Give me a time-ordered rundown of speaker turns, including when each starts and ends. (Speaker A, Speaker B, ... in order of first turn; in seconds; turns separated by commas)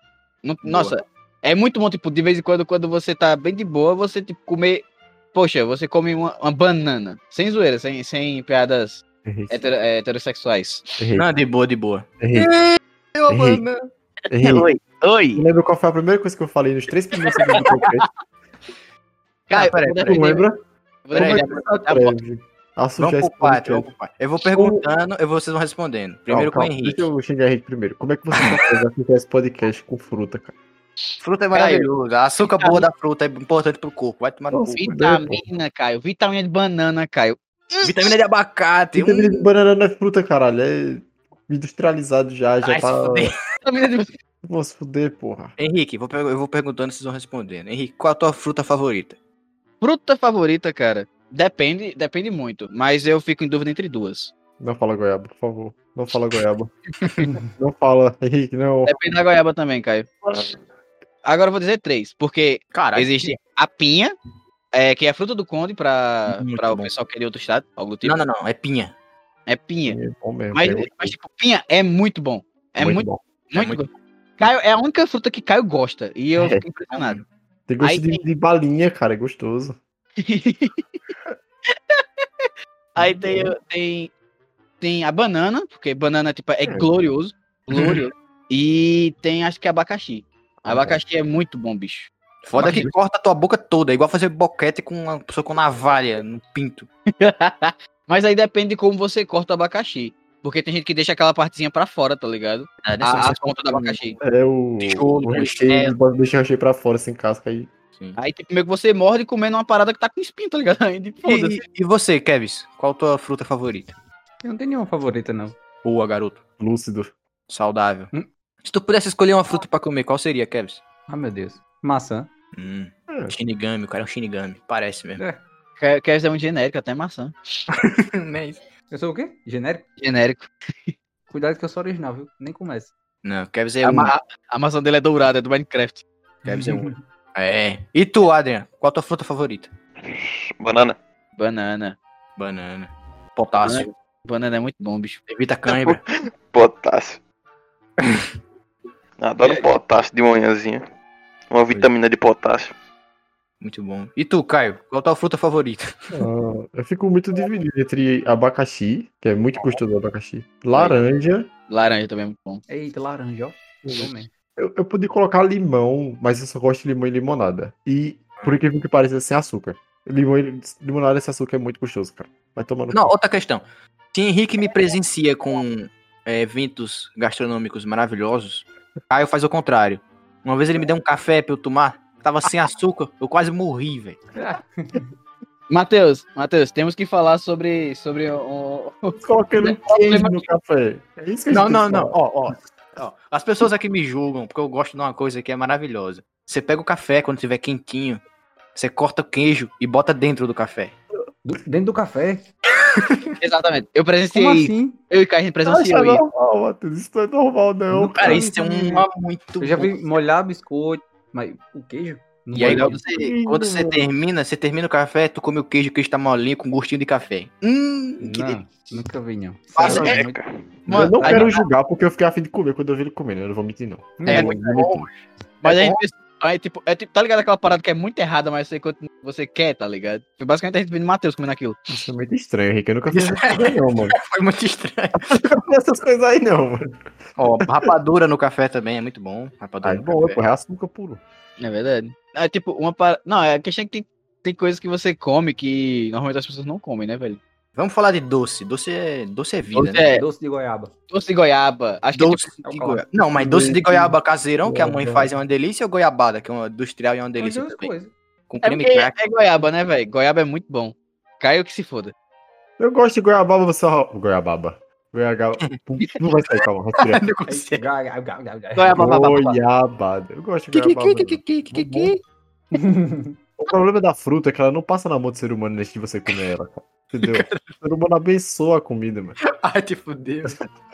Speaker A: 0.4-10.8, Speaker B: 0.6-0.9, Speaker C: 9.2-9.7, Speaker C: 11.0-11.3, Speaker B: 11.2-13.9, Speaker C: 12.2-12.5, Speaker C: 13.3-13.6, Speaker C: 14.3-14.7, Speaker B: 14.4-14.8, Speaker A: 14.6-15.4, Speaker C: 15.3-18.1, Speaker B: 17.6-17.9, Speaker B: 19.5-20.3, Speaker A: 19.5-20.4, Speaker C: 20.0-20.6, Speaker A: 21.1-22.2, Speaker C: 21.1-23.9, Speaker B: 21.1-21.5, Speaker B: 23.0-27.0, Speaker C: 24.4-24.8, Speaker C: 26.3-30.5, Speaker A: 31.1-32.9, Speaker B: 31.2-34.8, Speaker C: 34.5-35.4, Speaker A: 34.8-38.1, Speaker B: 37.8-39.5, Speaker C: 38.9-43.3, Speaker B: 42.6-43.4, Speaker A: 43.6-44.1, Speaker C: 44.4-45.5, Speaker B: 45.6-49.2, Speaker A: 49.8-54.3, Speaker C: 54.6-56.7, Speaker B: 57.0-57.3, Speaker C: 57.5-58.9, Speaker A: 58.9-60.2, Speaker A: 61.2-64.1, Speaker B: 62.7-63.4, Speaker A: 64.7-68.2, Speaker B: 66.3-66.9, Speaker B: 68.0-68.9, Speaker A: 69.5-70.0, Speaker C: 69.8-71.2, Speaker A: 70.5-77.2, Speaker C: 72.8-73.2, Speaker B: 73.5-73.8, Speaker C: 76.3-76.6, Speaker B: 76.9-77.2, Speaker C: 77.7-79.8, Speaker A: 77.8-78.2, Speaker A: 80.2-81.0, Speaker A: 81.7-84.1, Speaker C: 83.0-83.5, Speaker A: 84.8-92.8, Speaker B: 87.7-88.0, Speaker C: 90.6-90.9, Speaker B: 92.4-96.9, Speaker C: 92.6-92.9, Speaker A: 97.2-104.2, Speaker B: 102.8-104.0, Speaker C: 104.2-107.7, Speaker B: 104.8-105.9, Speaker A: 108.2-111.6, Speaker B: 111.2-114.0, Speaker D: 114.4-115.6, Speaker B: 115.8-116.4, Speaker C: 116.6-117.1, Speaker B: 117.5-118.1, Speaker B: 118.6-120.8, Speaker D: 121.1-122.3, Speaker B: 122.5-125.2, Speaker C: 123.1-123.3, Speaker A: 125.8-127.3, Speaker B: 127.8-128.6, Speaker D: 128.9-129.9, Speaker A: 130.0-130.9, Speaker D: 131.3-132.9, Speaker B: 133.2-134.1, Speaker A: 133.8-136.0, Speaker D: 136.4-137.0, Speaker B: 136.4-139.7, Speaker E: 140.0-141.0, Speaker A: 141.4-142.0, Speaker B: 142.4-143.9, Speaker A: 143.6-145.2, Speaker B: 145.3-146.0, Speaker E: 145.7-147.2, Speaker B: 148.0-148.3, Speaker E: 149.2-150.8, Speaker E: 151.5-152.7, Speaker B: 153.6-156.1, Speaker C: 156.1-161.5, Speaker A: 161.7-162.6, Speaker D: 162.7-164.3, Speaker C: 163.8-173.1, Speaker B: 172.9-184.2, Speaker D: 184.3-185.1, Speaker A: 185.7-190.4, Speaker C: 189.1-192.6, Speaker B: 191.5-198.2, Speaker B: 198.7-200.9, Speaker D: 201.4-202.4, Speaker B: 202.9-203.3, Speaker A: 203.4-206.2, Speaker D: 204.3-205.0, Speaker C: 205.7-208.4, Speaker D: 207.9-209.1, Speaker B: 208.2-209.9, Speaker D: 209.6-213.0, Speaker B: 212.5-218.9, Speaker C: 212.7-214.1, Speaker D: 218.2-220.4, Speaker B: 219.7-220.3, Speaker E: 219.9-220.7, Speaker A: 220.9-221.6, Speaker C: 220.9-225.1, Speaker B: 220.9-221.4, Speaker D: 224.2-224.5, Speaker B: 224.2-226.0, Speaker A: 225.6-231.8, Speaker C: 231.9-234.2, Speaker B: 233.1-235.4, Speaker C: 235.3-237.1, Speaker B: 237.4-240.4, Speaker C: 239.8-241.2, Speaker A: 241.6-247.4, Speaker B: 247.7-250.0, Speaker A: 249.7-250.2, Speaker D: 250.1-250.9, Speaker A: 251.1-252.5, Speaker B: 252.1-257.9, Speaker D: 252.6-253.0, Speaker C: 253.3-255.3, Speaker D: 257.4-258.1, Speaker B: 258.5-259.1, Speaker A: 258.6-262.1, Speaker C: 262.8-267.3, Speaker B: 267.0-267.9, Speaker D: 267.5-269.1, Speaker A: 268.7-269.6, Speaker C: 268.9-272.1, Speaker B: 270.7-272.2, Speaker D: 272.7-273.3, Speaker C: 273.6-279.4, Speaker B: 277.2-277.7, Speaker B: 279.5-280.6